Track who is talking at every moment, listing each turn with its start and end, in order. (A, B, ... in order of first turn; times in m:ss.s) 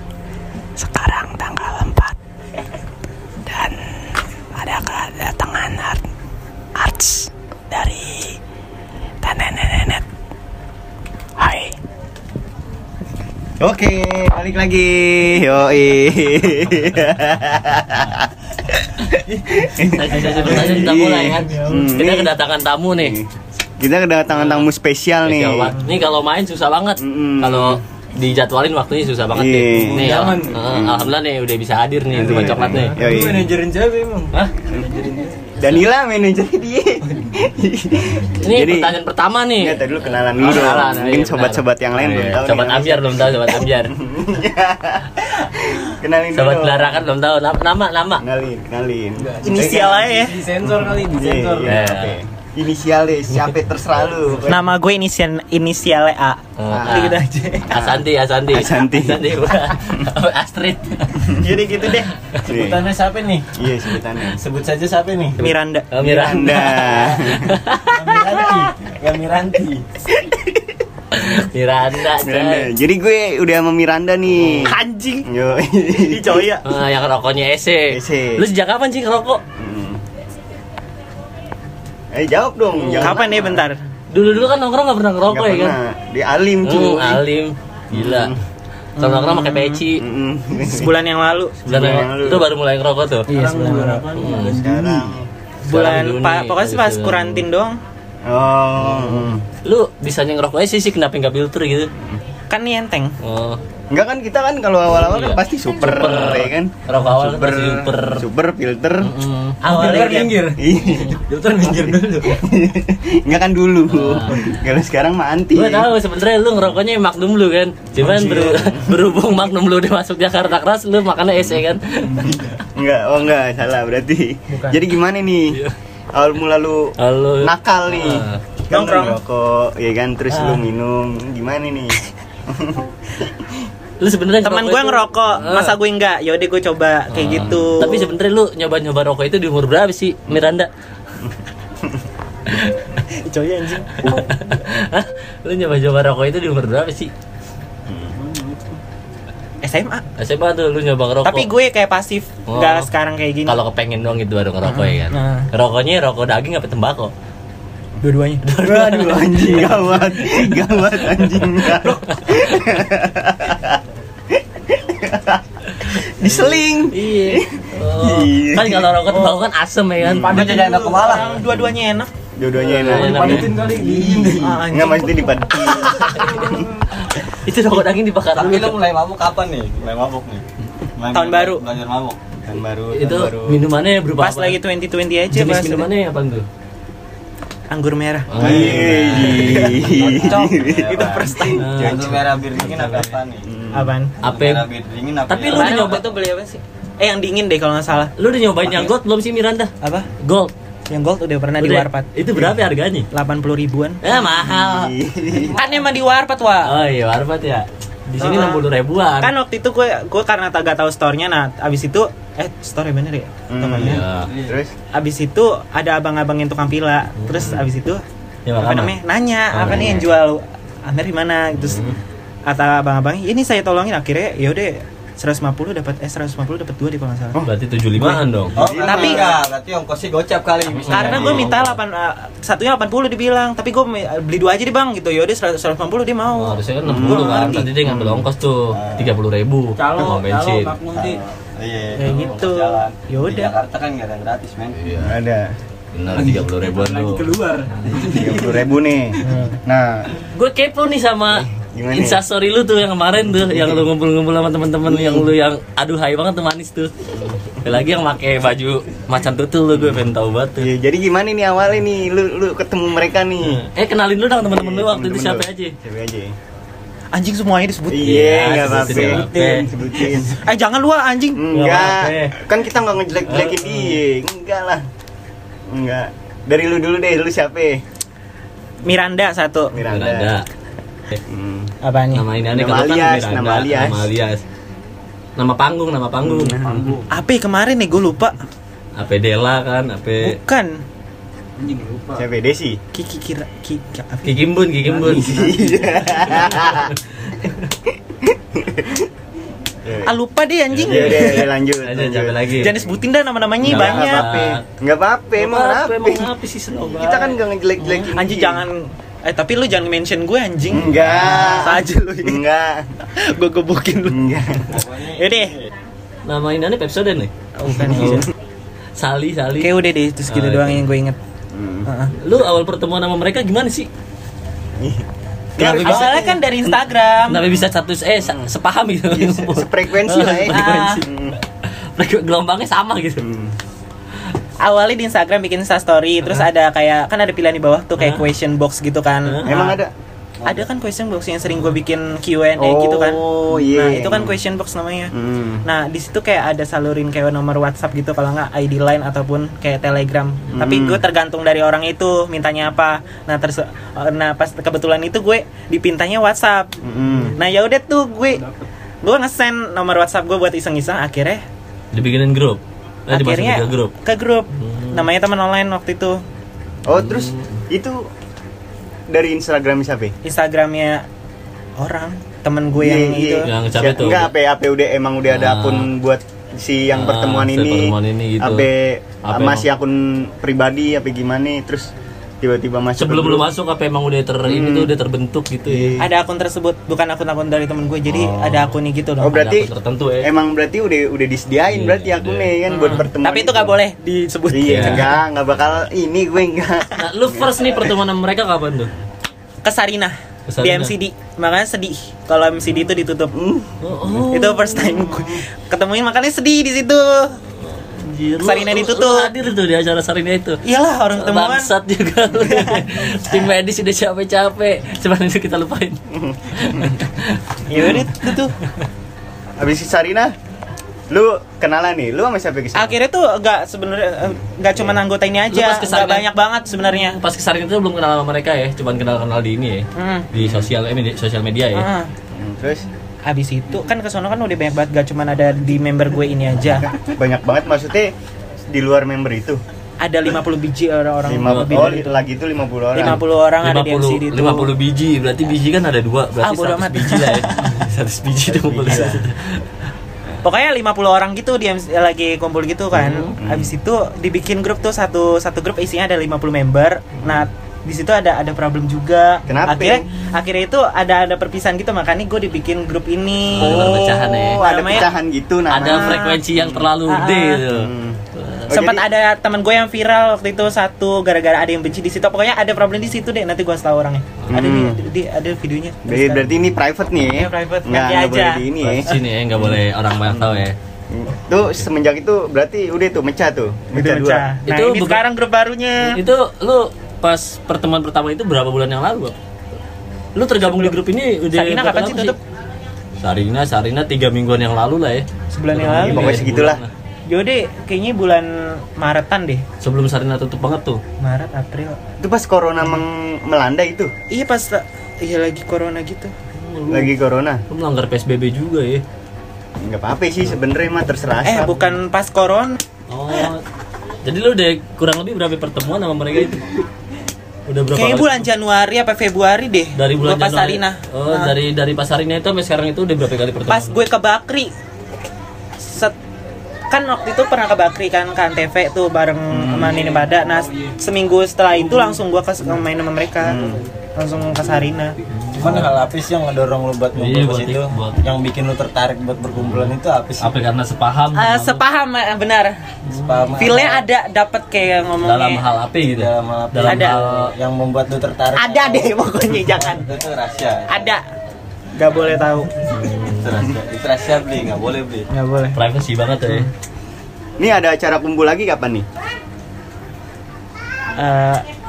0:00.8-0:02.0 A
0:04.5-0:06.0 A
0:06.8-0:08.3 A
0:09.2-0:10.0 A
0:11.4-0:11.7 A
0:13.6-0:23.2 B
0:19.8-0:23.2 A
0:20.1-0:20.9 C
0:23.8-0:25.7 B
0:24.3-0:24.7 A
0:25.2-0:33.0 A
0:27.0-0:27.8 B
0:29.3-0:31.1 B
0:29.9-0:30.7 C
0:32.1-0:33.5 B
0:32.1-0:35.5 C
0:35.6-0:39.0 B
0:38.4-0:43.9 A
0:39.6-0:47.0 B
0:46.3-0:48.2 A
0:48.2-0:50.0 B
0:49.2-0:51.6 C
0:49.4-0:50.4 D
0:49.5-0:51.7 E
0:50.6-0:54.6 B
0:51.6-0:52.2 A
0:54.4-0:57.7 D
0:56.6-0:57.2 A
0:56.7-1:00.0 B
0:57.7-1:01.3 A
1:01.4-1:02.1 D
1:02.4-1:03.6 E
1:02.5-1:02.8 B
1:03.5-1:04.4 B
1:04.2-1:05.4 E
1:05.4-1:05.9 D
1:05.9-1:08.1 A
1:06.0-1:07.2 E
1:06.0-1:07.6 B
1:07.8-1:09.8 E
1:10.1-1:10.8 B
1:11.1-1:12.7 A
1:12.0-1:16.5 B
1:14.6-1:15.3 D
1:16.0-1:16.6 D
1:16.6-1:19.4 A
1:17.9-1:18.4 B
1:19.6-1:20.0 B
1:22.1-1:23.6 B
1:22.7-1:23.2 A
1:23.0-1:23.8 D
1:24.1-1:25.8 A
1:25.3-1:27.2 B
1:26.6-1:28.3 A
1:27.9-1:28.4 B
1:29.0-1:29.8 D
1:29.0-1:30.0 A
1:30.0-1:30.9 B
1:30.6-1:31.6 D
1:31.6-1:32.5 B
1:31.6-1:33.3 A
1:33.3-1:34.1 D
1:33.3-1:35.2 C
1:34.1-1:34.6 A
1:34.5-1:35.3 B
1:35.6-1:37.8 D
1:35.7-1:37.4 A
1:38.2-1:39.4 B
1:38.8-1:41.9 A
1:42.5-1:43.2 D
1:43.2-1:43.6 A
1:43.9-1:49.1 B
1:44.9-1:48.2 A
1:49.0-1:50.2 A
1:49.6-1:50.4 D
1:49.6-1:52.4 C
1:50.4-1:51.1 B
1:52.2-1:55.9 B
1:53.9-1:54.5 A
1:55.5-2:02.4 A
1:58.0-1:58.9 B
2:02.7-2:05.6 B
2:04.5-2:04.8 D
2:06.1-2:13.7 B
2:07.0-2:08.4 A
2:08.7-2:09.2 D
2:14.0-2:15.8 A
2:14.4-2:18.1 D
2:17.1-2:20.7 A
2:23.1-2:24.0 D
2:24.0-2:27.1 A
2:27.9-2:28.1 B
2:28.1-2:28.8 C
2:29.6-2:30.0 D
2:30.2-2:31.5 A
2:31.2-2:33.6 D
2:32.5-2:32.9 A
2:33.4-2:37.1 A
2:34.6-2:35.5 D
2:38.0-2:38.4 D
2:38.4-2:42.6 A
2:38.5-2:49.1 B
2:45.7-2:50.6 A
2:50.0-2:50.3 B
2:50.2-2:51.4 E
2:50.3-2:52.1 D
2:50.4-2:50.9 C
2:52.4-2:56.7 B
2:52.6-2:54.4 C
2:52.7-2:54.4 E
2:52.7-2:53.5 A
2:54.4-2:55.5 D
2:55.6-2:58.8 A
2:56.2-2:56.6 C
2:58.3-3:00.4 E
3:01.0-3:02.2 E
3:01.1-3:01.6 D
3:02.4-3:03.6 B
3:02.9-3:04.6 A
3:04.2-3:05.9 D
3:05.3-3:06.4 A
3:07.7-3:08.4 D
3:08.3-3:10.0 A
3:08.4-3:11.1 B
3:08.4-3:13.5 E
3:10.0-3:11.7 D
3:11.5-3:13.2 A
3:11.8-3:12.1 B
3:13.4-3:13.9 B
3:13.7-3:14.1 D
3:14.2-3:14.7 A
3:14.2-3:16.0 E
3:15.3-3:16.0 A
3:15.5-3:18.1 D
3:18.2-3:20.5 A
3:19.8-3:20.1 D
3:20.9-3:22.1 D
3:21.6-3:23.1 A
3:23.1-3:24.0 D
3:24.0-3:24.9 A
3:24.1-3:25.6 B
3:25.5-3:26.8 D
3:26.6-3:29.3 A
3:28.2-3:28.6 D
3:29.2-3:34.0 D
3:33.5-3:34.7 B
3:33.7-3:34.3 A
3:34.3-3:34.6 E
3:34.9-3:38.0 D
3:37.2-3:37.6 A
3:38.4-3:38.9 A
3:38.6-3:41.9 D
3:39.5-3:40.1 A
3:41.6-3:42.0 A
3:42.5-3:47.4 D
3:47.4-3:48.6 A
3:48.0-3:48.2 D
3:48.5-3:49.4 B
3:48.5-3:51.5 E
3:48.8-3:49.4 D
3:50.7-3:51.8 A
3:50.9-3:57.7 D
3:56.3-4:00.8 A
3:56.8-3:58.3 B
3:58.7-3:59.1 E
3:59.8-4:01.2 C
4:00.9-4:04.8 E
4:02.0-4:03.5 D
4:04.8-4:05.2 A
4:05.0-4:05.5 B
4:05.9-4:07.3 A
4:06.1-4:08.6 C
4:07.9-4:08.3 E
4:08.0-4:10.1 B
4:09.2-4:09.6 D
4:10.3-4:16.9 A
4:11.3-4:12.2 B
4:13.5-4:13.8 B
4:14.8-4:15.3 B
4:17.1-4:17.6 B
4:17.6-4:20.7 A
4:19.7-4:23.6 B
4:23.4-4:25.7 A
4:24.4-4:26.3 B
4:27.1-4:29.6 D
4:27.9-4:30.4 B
4:28.0-4:29.7 A
4:30.3-4:31.4 D
4:31.3-4:34.8 B
4:31.5-4:32.4 A
4:33.3-4:34.0 A
4:35.7-4:37.8 B
4:38.8-4:39.8 D
4:39.7-4:40.3 B
4:39.9-4:40.4 A
4:41.2-4:41.7 B
4:41.8-4:42.2 D
4:42.1-4:44.4 A
4:42.5-4:44.1 B
4:45.4-4:46.6 A
4:46.2-4:46.9 B
4:46.6-4:47.1 C
4:47.1-4:48.4 D
4:49.0-4:50.4 A
4:50.2-4:50.8 D
4:51.6-4:52.3 C
4:52.2-4:52.8 B
4:52.9-4:54.4 D
4:54.2-4:55.3 A
4:54.9-4:56.0 C
4:55.0-4:56.9 B
4:56.3-4:57.7 A
4:57.9-4:59.1 B
4:59.8-5:00.1 B
5:00.0-5:01.5 D
5:00.7-5:02.8 A
5:00.7-5:02.8 B
5:02.6-5:04.2 D
5:03.6-5:06.3 B
5:03.6-5:04.6 A
5:05.4-5:08.1 A
5:06.8-5:08.6 B
5:08.1-5:12.4 D
5:10.7-5:12.9 B
5:11.0-5:11.5 A
5:13.2-5:14.3 D
5:14.1-5:14.8 B
5:14.7-5:15.7 E
5:15.1-5:15.6 D
5:16.2-5:17.3 A
5:17.6-5:18.3 D
5:17.7-5:18.2 B
5:17.8-5:18.2 A
5:19.0-5:19.7 A
5:19.6-5:21.2 D
5:20.3-5:20.8 A
5:21.5-5:21.9 B
5:21.8-5:22.1 D
5:22.2-5:23.9 A
5:24.8-5:25.0 B
5:25.6-5:26.4 B
5:25.6-5:27.4 D
5:25.6-5:26.7 A
5:27.2-5:33.2 A
5:28.2-5:28.5 B
5:29.1-5:31.4 B
5:30.5-5:31.0 D
5:33.2-5:33.5 B
5:34.6-5:39.8 D
5:39.2-5:39.5 A
5:39.4-5:39.9 B
5:40.4-5:45.1 D
5:42.6-5:44.4 B
5:45.1-5:45.6 B
5:45.6-5:56.7 D
5:50.5-5:51.0 B
5:56.8-5:57.3 B
5:57.3-5:58.4 D
5:59.0-6:01.4 D
6:01.9-6:03.9 A
6:03.1-6:06.2 D
6:04.6-6:05.1 A
6:06.8-6:08.1 B
6:06.9-6:07.6 A
6:09.1-6:10.1 B
6:10.2-6:11.0 D
6:11.8-6:13.5 D
6:12.8-6:21.9 B
6:13.4-6:14.3 A
6:15.3-6:15.9 A
6:16.9-6:18.7 A
6:19.2-6:19.6 A
6:22.4-6:23.5 B
6:23.0-6:26.0 A
6:24.4-6:24.9 B
6:25.7-6:26.1 B
6:26.0-6:29.4 D
6:29.2-6:33.7 B
6:29.3-6:30.3 A
6:31.7-6:33.0 A
6:32.7-6:35.2 D
6:34.5-6:37.9 B
6:34.6-6:35.1 A
6:37.0-6:38.9 A
6:39.6-6:43.3 D
6:40.5-6:40.9 A
6:43.3-6:43.9 B
6:43.8-6:45.1 A
6:44.2-6:47.4 D
6:47.6-6:50.6 A
6:48.4-6:49.3 D
6:50.6-6:51.7 D
6:51.2-6:56.0 A
6:52.3-6:52.9 D
6:56.1-6:56.9 B
6:56.5-6:58.0 A
6:57.7-6:58.5 D
6:59.6-7:00.3 B
7:01.1-7:02.9 B
7:02.7-7:07.2 D
7:05.5-7:06.3 A
7:07.1-7:11.9 A
7:10.0-7:10.3 D
7:10.4-7:10.7 B
7:11.7-7:12.1 D
7:12.3-7:12.8 B
7:13.2-7:16.9 D
7:16.8-7:18.1 B
7:18.7-7:19.6 B
7:20.0-7:22.2 D
7:21.2-7:23.2 B
7:21.4-7:22.0 A
7:22.9-7:24.7 D
7:23.0-7:29.6 A
7:26.4-7:27.7 D
7:28.4-7:29.2 B
7:30.4-7:45.1 D
7:32.9-7:33.3 A
7:33.4-7:33.7 B
7:39.5-7:40.0 B
7:43.5-7:44.6 A
7:43.5-7:46.9 B
7:45.7-7:48.7 A
7:45.8-7:46.4 D
7:47.0-7:47.6 D
7:47.7-7:49.0 B
7:48.7-7:56.5 D
7:54.5-7:55.0 B
7:56.0-8:04.5 B
7:57.2-7:58.7 D
7:58.8-8:00.8 A
8:03.9-8:06.2 D
8:04.6-8:05.2 A
8:06.0-8:09.3 A
8:10.4-8:12.4 A
8:10.6-8:11.0 D
8:11.5-8:12.4 D
8:13.2-8:16.9 A
8:15.5-8:16.5 D
8:15.8-8:16.8 B
8:17.3-8:19.6 D
8:19.8-8:21.0 A
8:21.2-8:22.0 D
8:22.2-8:24.1 B
8:24.3-8:26.3 D
8:26.5-8:27.1 A
8:26.9-8:27.6 B
8:27.7-8:29.0 A
8:29.8-8:31.8 B
8:31.4-8:32.8 D
8:33.1-8:33.6 A
8:34.2-8:36.6 A
8:37.7-8:38.4 A
8:37.9-8:41.5 D
8:40.0-8:44.0 A
8:43.7-8:44.7 D
8:45.8-8:46.1 D
8:46.9-8:53.6 D
8:49.5-8:50.0 B
8:49.8-8:51.0 C
8:53.4-8:53.8 B
8:54.2-8:55.2 D
8:55.3-8:56.0 A
8:55.5-9:00.5 E
8:57.1-8:58.2 A
8:59.5-9:01.8 A
9:01.3-9:02.8 D
9:03.0-9:03.6 A
9:03.1-9:04.0 E
9:03.6-9:05.6 D
9:05.2-9:07.5 A
9:06.0-9:11.0 E
9:06.8-9:07.2 D
9:08.6-9:10.1 D
9:10.9-9:11.2 D
9:11.9-9:12.7 D
9:12.8-9:13.7 A
9:13.2-9:15.3 E
9:15.3-9:15.8 D
9:15.7-9:16.7 A
9:16.4-9:16.7 D
9:17.6-9:19.0 B
9:21.2-9:21.6 D